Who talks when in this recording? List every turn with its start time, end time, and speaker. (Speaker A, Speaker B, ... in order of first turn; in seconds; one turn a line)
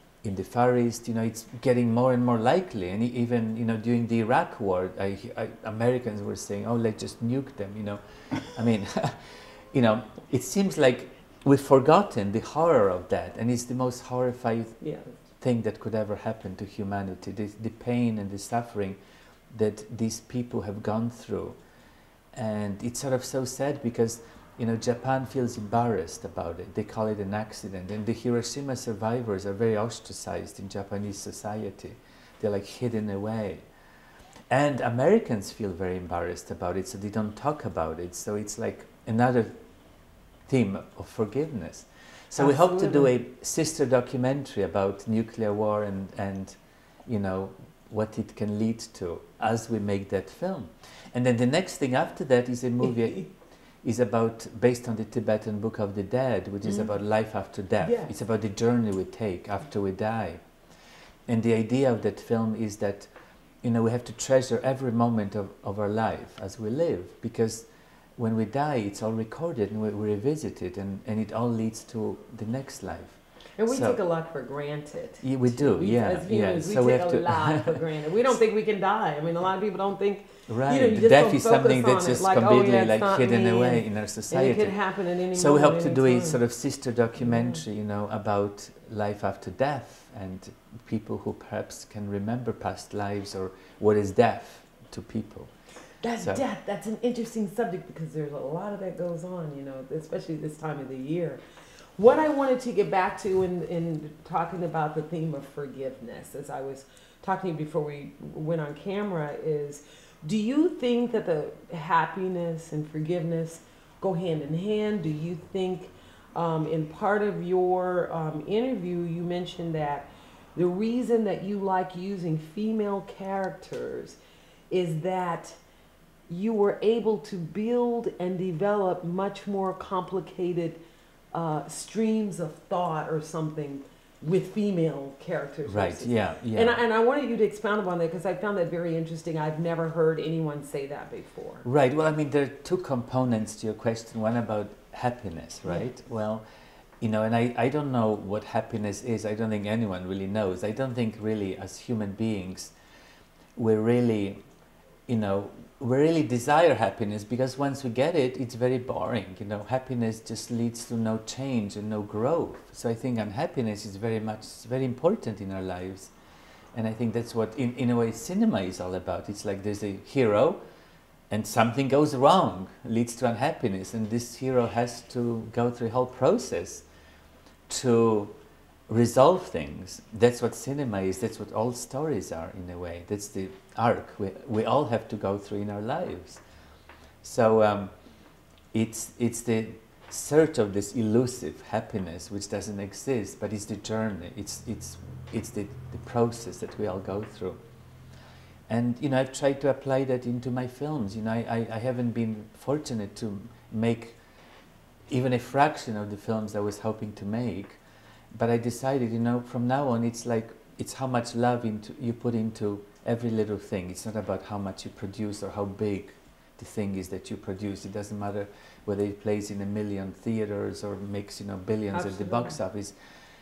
Speaker A: 0.2-14.8
Speaker B: 14.8-15.2
Speaker A: 15.4-19.0
Speaker A: 19.5-21.6
Speaker A: 22.3-33.7
Speaker A: 34.5-39.6
Speaker A: 40.5-60.5
Speaker B: 42.4-43.1
Speaker B: 57.8-58.1
Speaker A: 61.3-63.1
Speaker A: 63.6-74.0
Speaker B: 73.6-86.4
Speaker A: 75.2-77.8
Speaker A: 80.5-84.8
Speaker A: 85.3-95.5
Speaker B: 87.3-87.6
Speaker B: 96.0-101.4
Speaker B: 102.0-124.2
Speaker B: 124.7-125.6
Speaker B: 126.3-130.8
Speaker B: 131.3-141.7
Speaker A: 135.7-136.8
Speaker A: 141.7-146.4
Speaker A: 147.0-152.8
Speaker A: 153.6-154.4
Speaker A: 155.1-166.1
Speaker A: 166.7-170.6
Speaker A: 171.3-176.9
Speaker A: 177.7-178.3
Speaker A: 178.9-186.4
Speaker A: 187.2-187.9
Speaker A: 188.7-197.6
Speaker A: 198.7-204.2
Speaker A: 205.1-207.8
Speaker A: 208.3-223.0
Speaker B: 221.9-222.6